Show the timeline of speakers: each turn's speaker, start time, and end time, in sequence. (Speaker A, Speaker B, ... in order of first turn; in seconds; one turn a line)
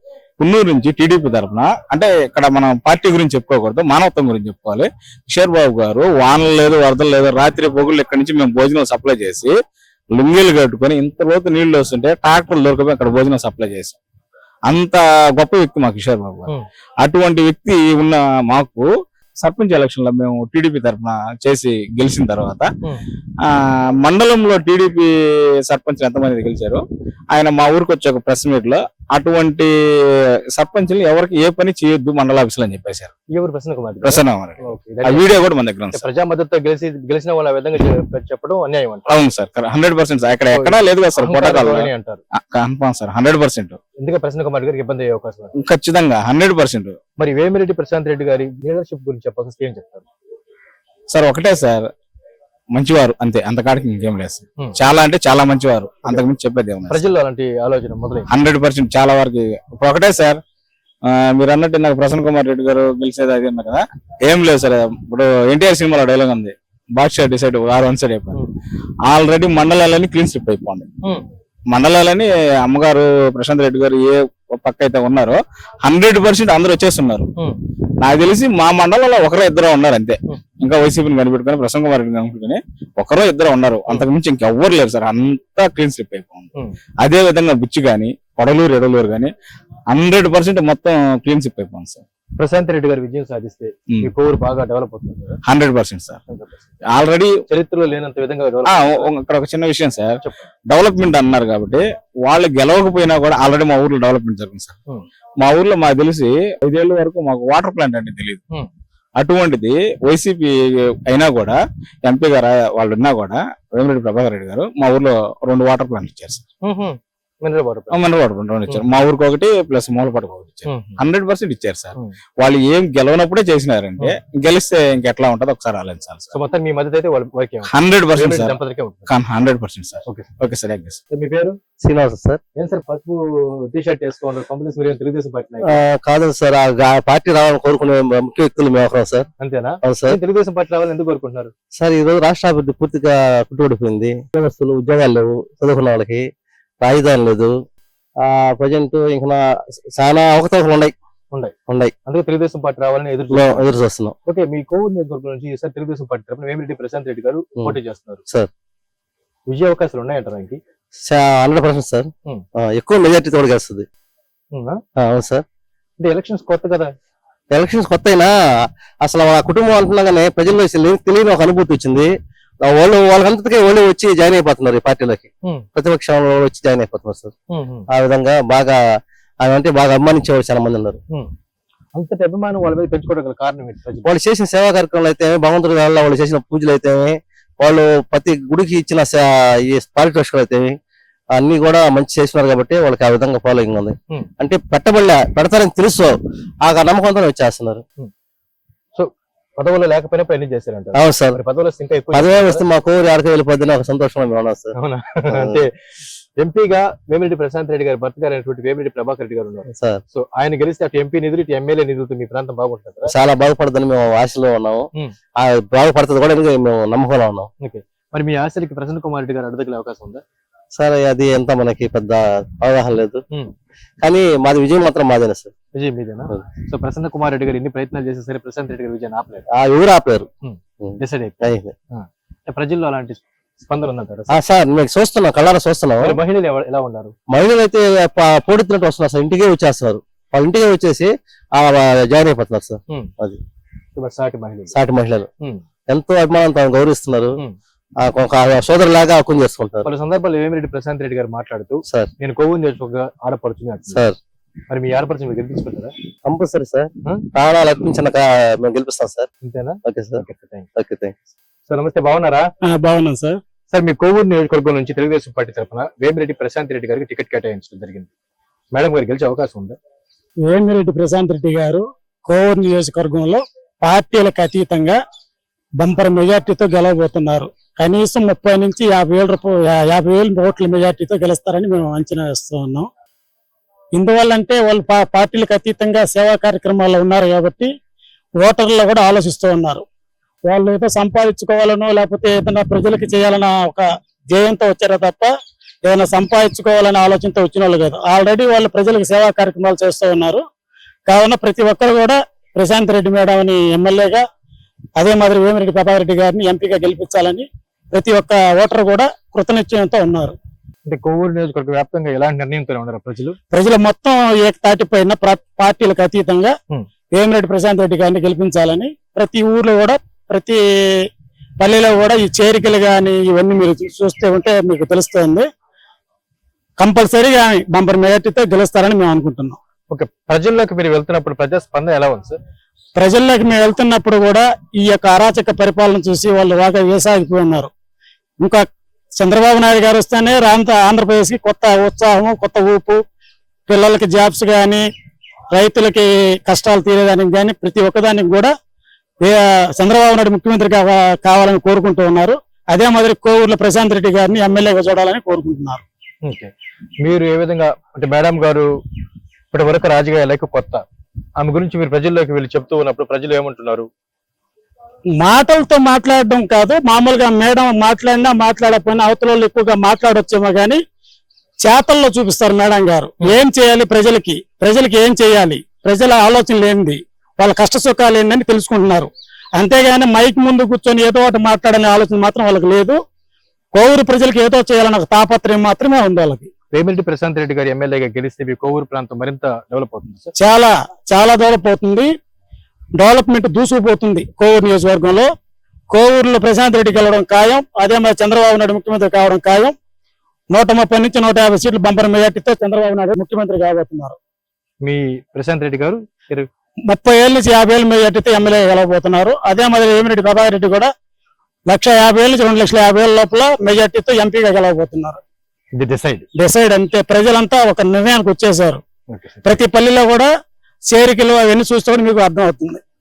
Speaker A: 0.4-9.5
Speaker A: 10.1-14.0
Speaker A: 14.7-18.9
Speaker A: 19.4-22.7
Speaker A: 23.4-25.1
Speaker A: 25.6-29.7
Speaker A: 30.6-33.1
Speaker B: 33.3-39.1
Speaker A: 34.0-36.1
Speaker A: 39.1-43.8
Speaker B: 40.5-42.2
Speaker B: 44.0-45.5
Speaker A: 45.6-47.0
Speaker B: 47.2-50.0
Speaker A: 51.1-51.9
Speaker A: 52.7-57.0
Speaker B: 56.9-58.3
Speaker A: 58.3-60.4
Speaker A: 61.0-68.4
Speaker A: 69.1-70.9
Speaker A: 71.7-77.3
Speaker A: 78.0-86.5
Speaker A: 87.0-89.3
Speaker A: 89.9-92.0
Speaker B: 92.4-95.4
Speaker A: 95.5-96.2
Speaker B: 96.3-96.6
Speaker A: 96.9-97.4
Speaker B: 97.5-99.1
Speaker A: 98.6-104.8
Speaker A: 105.4-108.4
Speaker A: 109.2-110.5
Speaker A: 111.0-116.4
Speaker B: 116.6-118.0
Speaker A: 117.9-126.3
Speaker B: 118.7-119.0
Speaker B: 120.7-121.0
Speaker B: 126.3-129.1
Speaker A: 127.7-128.6
Speaker A: 129.1-131.0
Speaker B: 131.1-131.6
Speaker C: 131.8-132.4
Speaker B: 132.6-135.8
Speaker C: 135.6-139.3
Speaker B: 139.4-141.5
Speaker C: 139.8-140.2
Speaker C: 141.8-146.3
Speaker C: 146.8-147.5
Speaker C: 148.2-149.4
Speaker C: 149.9-150.9
Speaker C: 151.7-151.9
Speaker B: 152.1-153.7
Speaker C: 153.3-154.2
Speaker B: 154.2-158.2
Speaker B: 159.5-160.6
Speaker C: 161.1-163.8
Speaker B: 164.5-164.8
Speaker C: 165.0-165.4
Speaker B: 166.0-166.9
Speaker C: 167.5-168.3
Speaker C: 169.0-172.1
Speaker C: 172.6-177.3
Speaker B: 177.5-177.9
Speaker C: 177.9-178.8
Speaker C: 179.4-181.0
Speaker B: 181.9-184.1
Speaker C: 184.0-190.7
Speaker C: 191.3-197.8
Speaker B: 198.9-202.6
Speaker C: 200.9-201.4
Speaker C: 202.1-204.7
Speaker B: 204.7-205.7
Speaker C: 205.3-205.6
Speaker B: 206.4-213.1
Speaker C: 209.7-210.0
Speaker C: 213.0-217.5
Speaker B: 217.6-220.2
Speaker C: 220.8-223.2
Speaker C: 224.0-225.5
Speaker B: 225.7-229.5
Speaker C: 229.5-230.3
Speaker B: 230.4-234.4
Speaker C: 230.8-231.7
Speaker C: 234.3-236.2
Speaker B: 236.0-237.1
Speaker C: 237.3-243.4
Speaker B: 243.9-244.7
Speaker C: 244.7-245.3
Speaker C: 245.9-247.3
Speaker C: 248.0-249.9
Speaker B: 249.8-254.0
Speaker C: 253.9-254.2
Speaker B: 254.7-255.9
Speaker C: 256.3-259.3
Speaker B: 259.4-260.7
Speaker C: 259.8-260.2
Speaker C: 260.8-261.1
Speaker B: 261.7-262.5
Speaker D: 262.6-263.4
Speaker B: 263.7-268.1
Speaker B: 268.7-269.8
Speaker D: 270.4-275.0
Speaker D: 275.8-282.9
Speaker D: 283.9-287.7
Speaker D: 288.4-289.8
Speaker D: 290.4-295.3
Speaker D: 295.8-300.4
Speaker D: 301.1-304.2
Speaker D: 305.0-310.3
Speaker B: 310.9-313.4
Speaker D: 313.5-316.5
Speaker D: 317.1-320.6
Speaker D: 321.6-325.5
Speaker D: 326.8-329.6
Speaker B: 329.9-332.4
Speaker D: 332.9-337.7
Speaker D: 338.4-338.6
Speaker D: 339.2-343.0
Speaker D: 343.7-344.8
Speaker D: 345.5-348.5
Speaker D: 349.2-355.8
Speaker B: 356.2-358.7
Speaker B: 359.5-360.8
Speaker B: 361.4-363.9
Speaker D: 365.2-370.8
Speaker D: 371.6-383.0
Speaker D: 383.7-386.5
Speaker B: 386.7-390.3
Speaker D: 390.4-392.1
Speaker D: 393.0-395.3
Speaker D: 395.9-399.7
Speaker D: 400.5-404.1
Speaker B: 404.8-406.5
Speaker D: 406.9-410.9
Speaker D: 411.7-415.2
Speaker B: 415.8-416.2
Speaker D: 416.3-418.8
Speaker B: 419.1-419.6
Speaker D: 419.4-420.3
Speaker D: 420.9-422.8